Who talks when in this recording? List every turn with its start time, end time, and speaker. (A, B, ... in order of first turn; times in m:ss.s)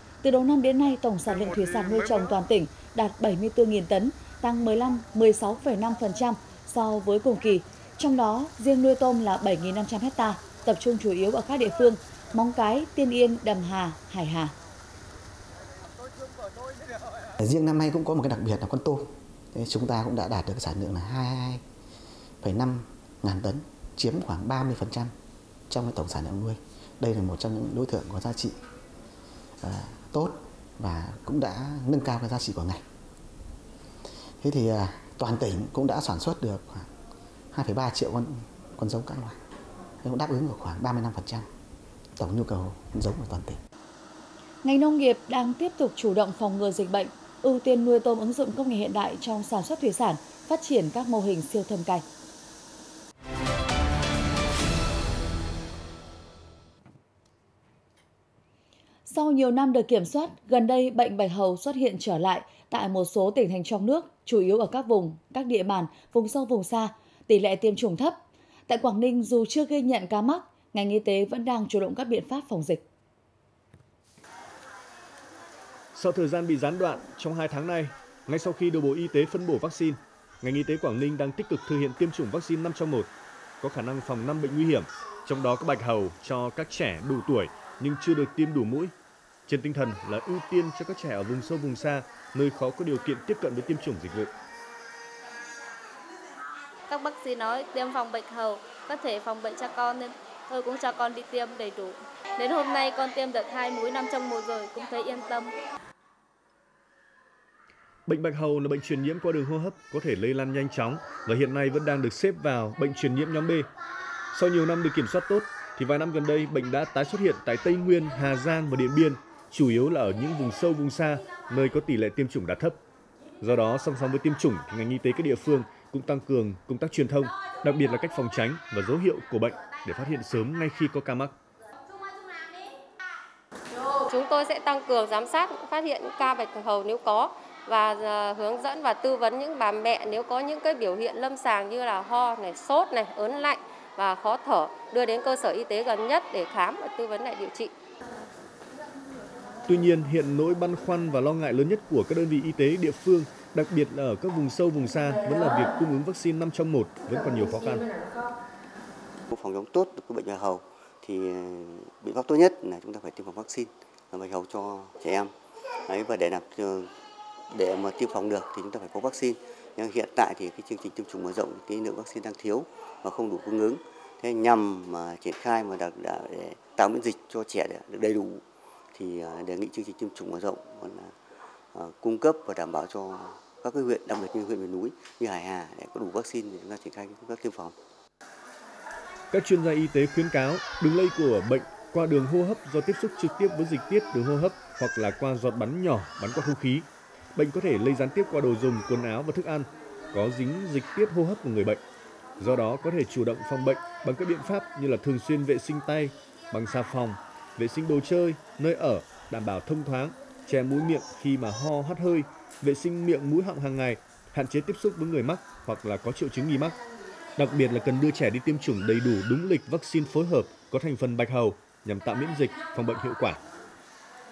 0:00.2-0:14.5 A
0:17.4-0:21.6 B
0:22.4-0:25.1 B
0:25.7-0:28.5 B
0:29.6-0:32.8 B
0:34.4-0:36.9 B
0:37.5-0:39.4 B
0:40.0-0:41.5 B
0:42.2-0:43.6 B
0:44.6-0:52.0 A
0:59.1-1:12.8 A
1:15.9-1:23.1 C
1:23.6-1:28.9 C
1:29.5-1:34.3 C
1:36.9-1:45.5 D
1:48.0-1:53.7 C
1:54.3-2:02.8 C
2:03.4-2:11.3 C
2:14.1-2:27.7 E
2:29.7-2:37.9 C
2:39.3-2:45.3 F
2:45.9-2:46.9 F
2:47.5-2:58.4 F
2:58.9-3:01.1 F
3:01.7-3:07.8 F
3:09.3-3:21.8 C
3:22.4-3:36.8 C
3:37.4-3:43.4 C